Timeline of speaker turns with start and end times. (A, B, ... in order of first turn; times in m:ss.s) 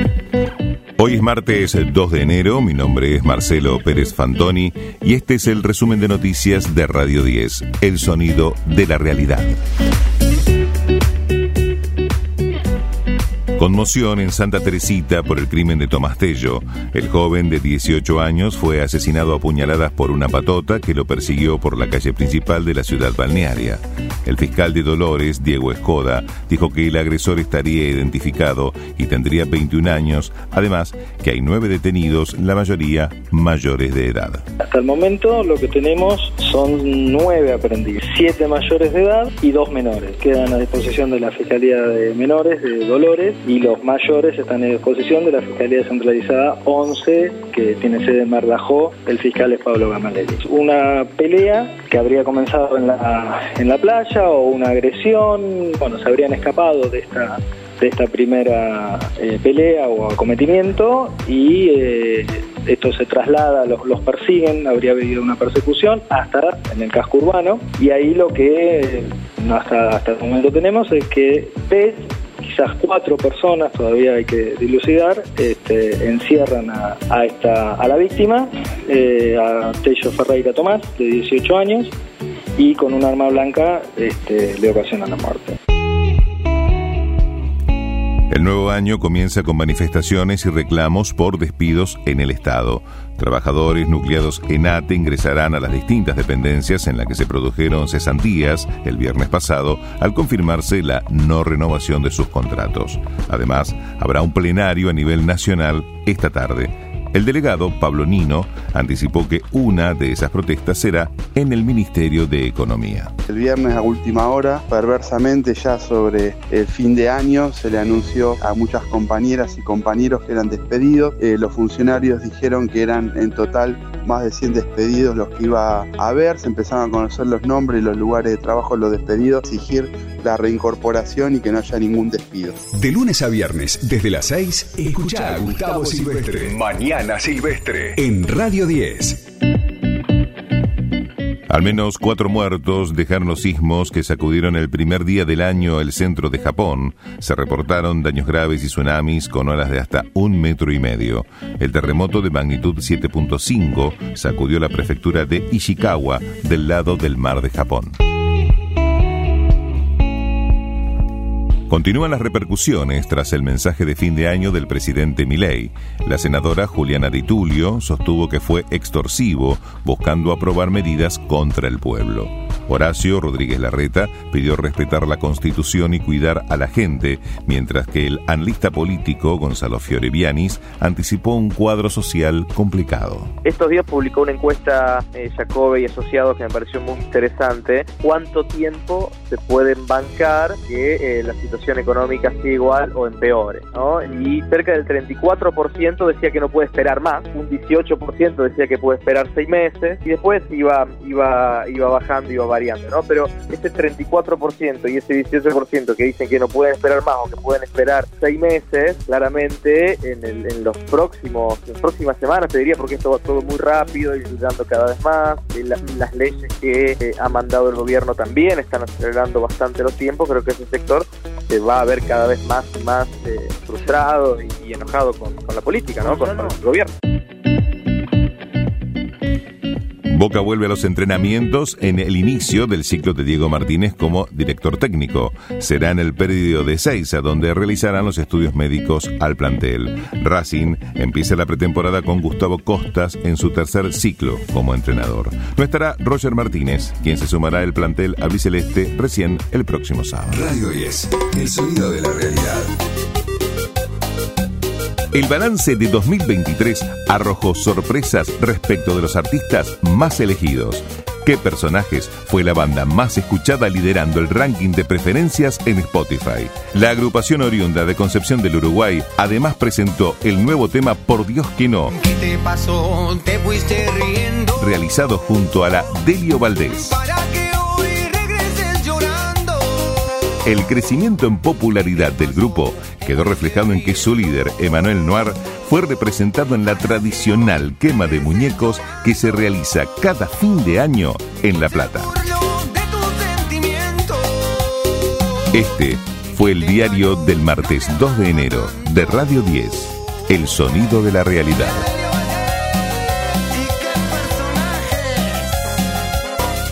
0:01.0-0:09.6 A
0:13.6-0:34.4 A
0:34.6-1:21.9 B
1:22.6-1:25.6 B
1:28.3-1:53.1 A
1:53.3-2:12.6 C
2:12.7-2:19.2 D
2:21.5-2:38.0 A
2:41.7-3:03.3 A
3:03.5-3:46.9 E
3:50.1-4:10.5 A
4:10.3-4:12.8 D
4:15.1-4:32.1 A
4:32.2-4:34.4 F
4:34.4-4:37.1 A
4:37.2-4:39.7 F
4:40.4-4:52.3 A
4:52.4-4:54.3 F
4:55.5-5:01.9 A